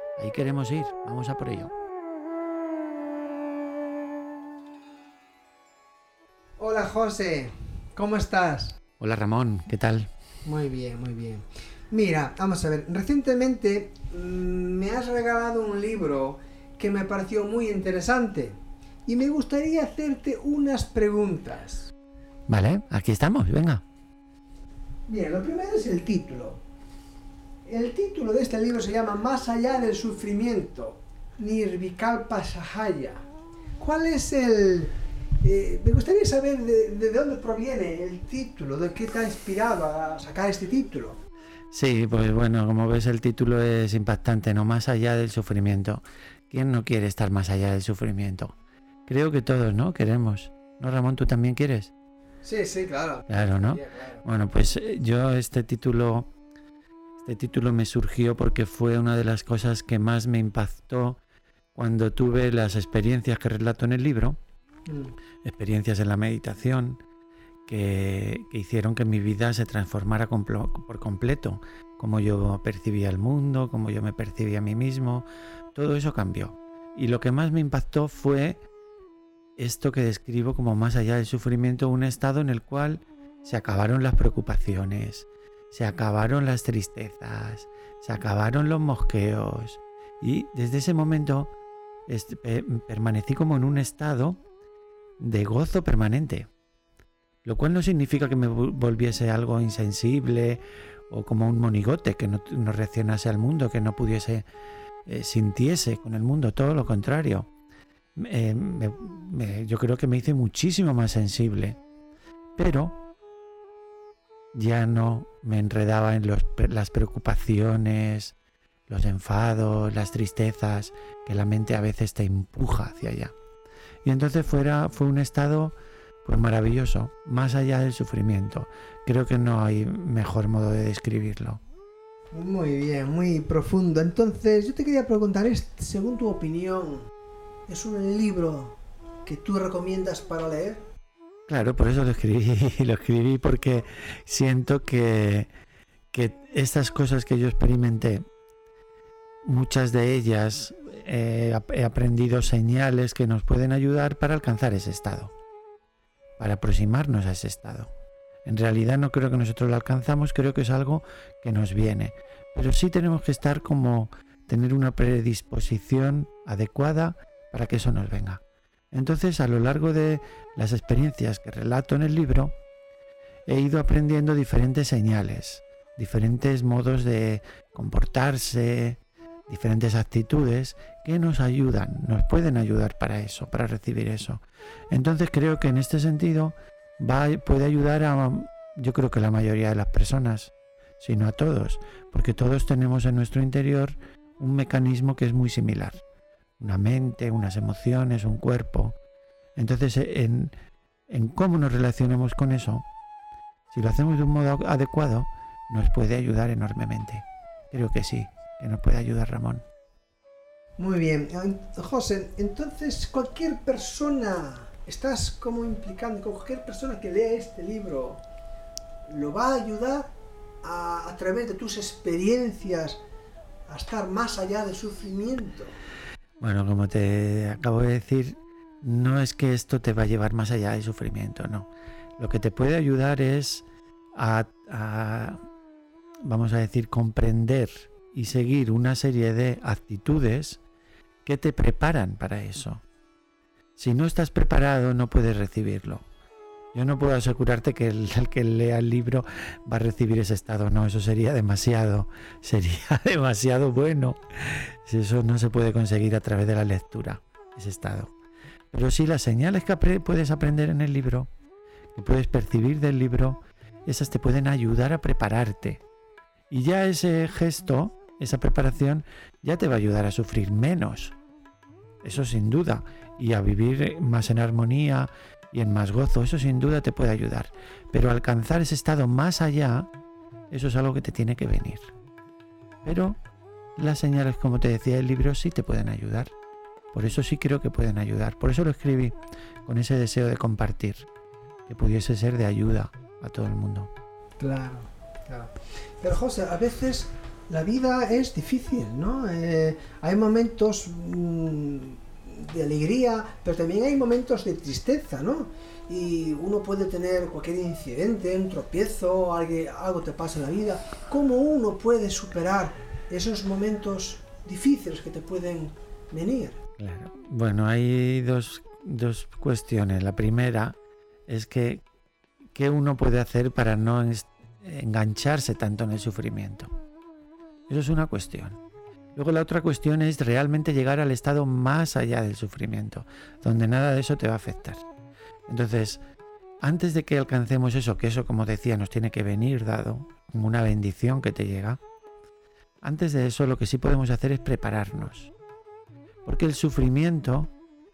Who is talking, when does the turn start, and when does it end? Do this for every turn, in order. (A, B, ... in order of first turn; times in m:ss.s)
0:00.2-0:01.7 A
0:06.6-0:08.8 B
0:09.0-0:10.1 A
0:10.4-0:21.9 B
0:22.5-0:23.8 A
0:25.1-0:26.6 B
0:27.6-0:33.2 B
0:33.8-0:41.2 B
0:41.7-0:51.9 A
0:52.4-0:54.2 B
0:53.3-0:56.3 A
0:57.2-1:01.2 A
1:01.7-1:04.4 A
1:04.9-1:05.1 B
1:05.4-1:07.0 A
1:07.7-1:18.6 A
1:19.6-1:31.5 A
1:32.1-1:34.4 A
1:35.2-1:36.5 A
1:37.4-1:44.4 A
1:45.0-1:47.5 A
1:48.2-1:51.8 A
1:52.6-1:53.0 A
1:54.5-1:58.3 A
1:58.9-2:03.3 A
2:04.0-2:11.6 A
2:12.3-2:17.1 B
2:17.7-2:20.8 B
2:21.5-2:25.5 A
2:26.1-2:28.2 A
2:29.4-2:35.3 A
2:36.4-2:37.9 A
2:38.4-2:52.6 A
2:53.5-3:16.0 A
3:16.6-3:19.0 A
3:19.6-3:20.5 A
3:21.1-3:22.9 A
3:23.7-3:29.6 A
3:30.8-3:38.2 B
3:39.1-3:43.0 B
3:43.7-3:45.8 B
3:46.4-3:55.4 A
3:56.2-4:00.6 A
4:01.2-4:02.8 A
4:03.8-4:06.0 A
4:06.7-4:18.1 A
4:18.7-4:21.3 A
4:21.9-4:25.8 A
4:26.5-4:31.2 A
4:32.0-4:39.9 A
4:40.5-4:41.9 A
4:42.8-4:43.2 A
4:43.8-4:46.3 A
4:46.9-4:51.1 A
4:51.7-4:53.9 A
4:54.4-5:16.6 B
5:16.8-5:21.8 A
5:22.5-5:26.7 A
5:27.7-5:28.6 A
5:29.1-5:34.8 A
5:35.5-5:36.0 A
5:36.6-5:41.8 A
5:42.8-5:45.3 A
5:46.2-5:47.5 A